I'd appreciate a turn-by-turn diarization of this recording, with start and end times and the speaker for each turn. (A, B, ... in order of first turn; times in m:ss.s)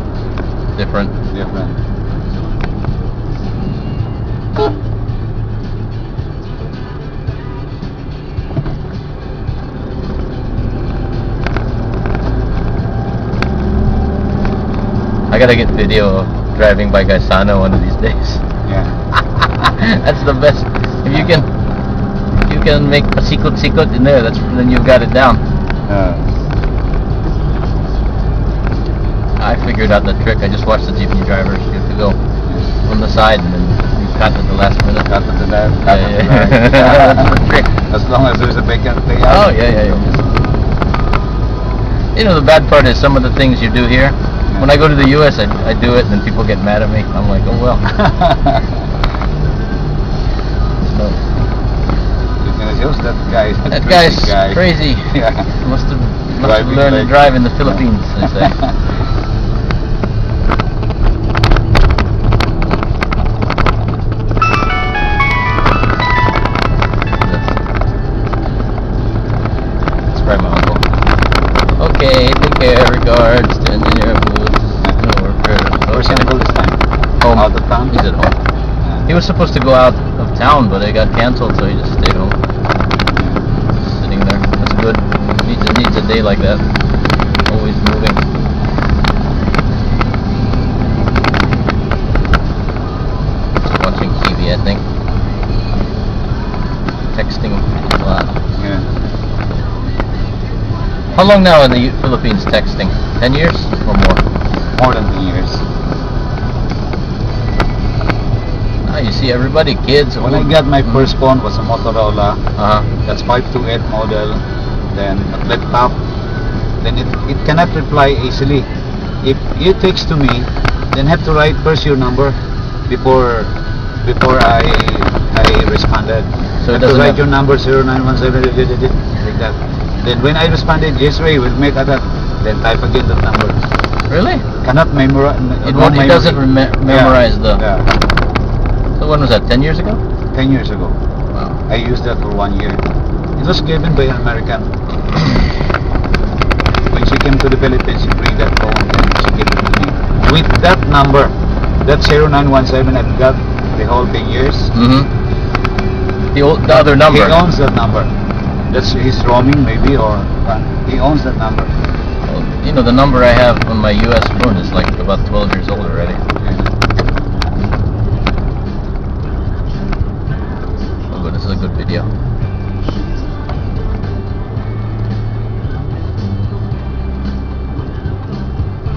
0:00.8-0:01.1 A
0:01.3-0:01.8 B
0:15.3-0:18.4 A
0:18.6-0:18.9 B
0:19.4-0:21.5 A
0:22.4-0:25.4 A
0:25.9-0:26.3 B
0:29.4-0:32.2 A
0:32.8-0:35.1 A
0:35.1-0:40.1 B
0:35.8-0:37.7 A
0:39.2-0:40.2 A
0:42.1-0:48.0 A
0:47.9-0:48.6 B
0:50.8-0:51.2 A
0:52.4-0:55.5 B
0:53.7-0:58.6 A
0:56.4-0:57.1 B
0:57.6-0:58.7 B
1:07.2-1:07.5 A
1:10.1-1:10.8 A
1:11.8-1:16.3 A
1:15.9-1:16.8 B
1:17.2-1:18.3 A
1:17.3-1:17.9 B
1:19.1-1:22.4 A
1:23.2-1:23.4 B
1:23.8-1:26.6 A
1:27.4-1:28.2 A
1:33.8-1:34.8 A
1:37.1-1:38.3 A
1:38.6-1:38.9 B
1:41.1-1:44.2 A
1:44.7-1:45.6 B
1:48.8-1:50.5 A
1:50.2-1:52.4 B
1:52.6-1:52.9 A
1:53.0-1:56.0 B
1:56.8-1:58.7 B
1:59.2-2:13.6 B
2:06.6-2:07.2 A
2:14.1-2:14.4 A
2:14.6-2:17.9 B
2:15.6-2:17.6 A
2:19.0-2:20.0 A
2:20.3-2:21.0 B
2:21.3-2:21.6 A
2:21.7-2:22.8 B
2:23.4-2:24.7 B
2:26.9-2:34.7 B
2:34.7-2:35.1 A
2:36.3-2:37.4 A
2:36.7-2:38.1 B
2:38.7-2:41.7 B
2:42.3-2:46.2 A
2:46.4-2:46.7 B
2:51.1-2:52.1 A